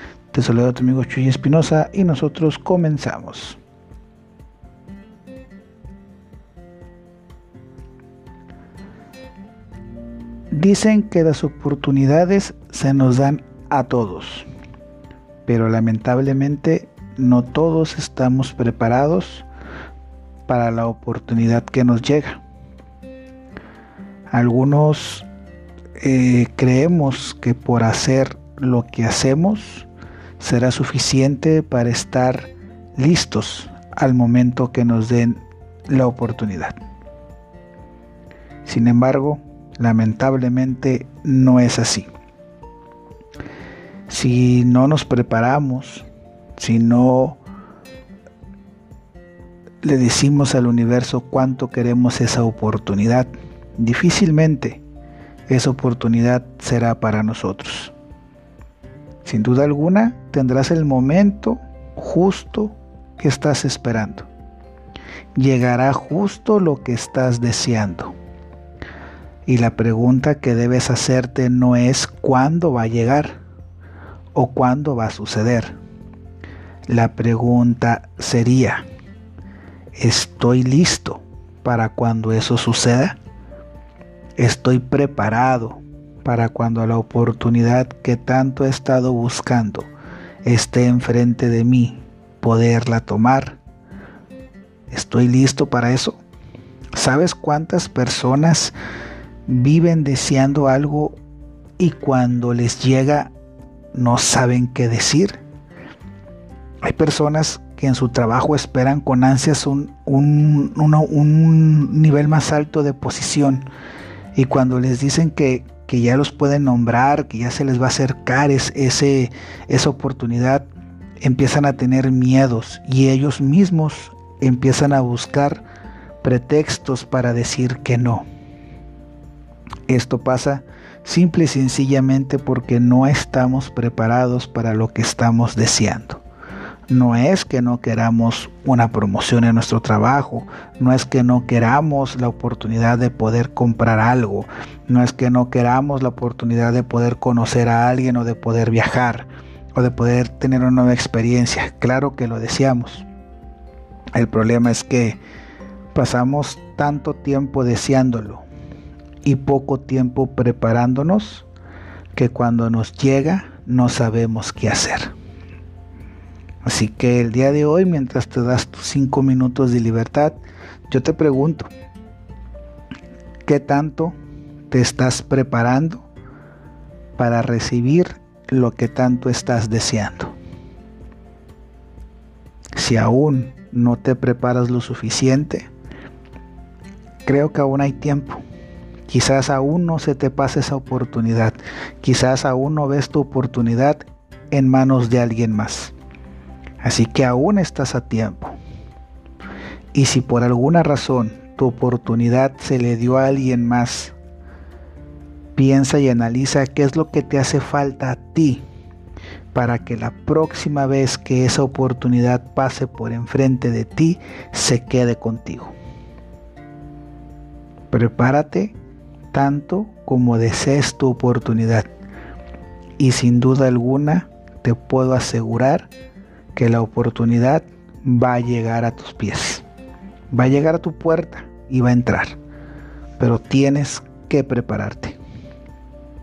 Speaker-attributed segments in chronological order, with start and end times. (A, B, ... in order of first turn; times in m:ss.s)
0:00.3-0:03.6 A
0:10.5-0:14.5 A
0:15.5-0:19.5 A
0:20.5-0:22.4 A
0:24.3-0:25.3 A
0:26.0-0:29.9 A
0:30.4-0:36.8 A
0:38.6-0:42.1 A
0:44.1-0:46.1 A
0:46.6-0:47.4 A
0:49.8-0:54.8 A
0:55.5-0:57.9 A
0:59.2-1:04.3 A
1:05.4-1:08.2 A
1:09.5-1:13.4 A
1:14.4-1:15.8 A
1:16.9-1:18.8 A
1:20.0-1:23.2 A
1:24.4-1:29.9 A
1:30.4-1:33.6 A
1:34.9-1:36.2 A
1:37.0-1:38.8 A
1:39.5-1:41.2 A
1:41.8-1:43.3 A
1:43.9-1:45.4 A
1:46.8-1:53.7 A
1:54.4-2:00.7 A
2:01.2-2:05.6 A
2:06.2-2:08.3 A
2:09.9-2:16.2 A
2:16.9-2:33.1 A
2:34.1-2:35.2 A
2:35.9-2:38.4 A
2:39.2-2:41.5 A
2:42.1-2:45.1 A
2:46.6-2:51.7 A
2:53.5-2:54.2 A
2:54.7-2:56.1 A
2:57.2-3:00.4 A
3:02.8-3:05.7 A
3:07.2-3:08.4 A
3:09.1-3:15.9 A
3:16.8-3:18.6 A
3:19.9-3:24.2 A
3:25.6-3:28.6 A
3:29.5-3:35.7 A
3:37.9-3:38.8 A
3:39.3-3:41.9 A
3:43.0-3:45.9 A
3:46.6-3:49.6 A
3:50.3-3:52.4 A
3:53.2-3:55.2 A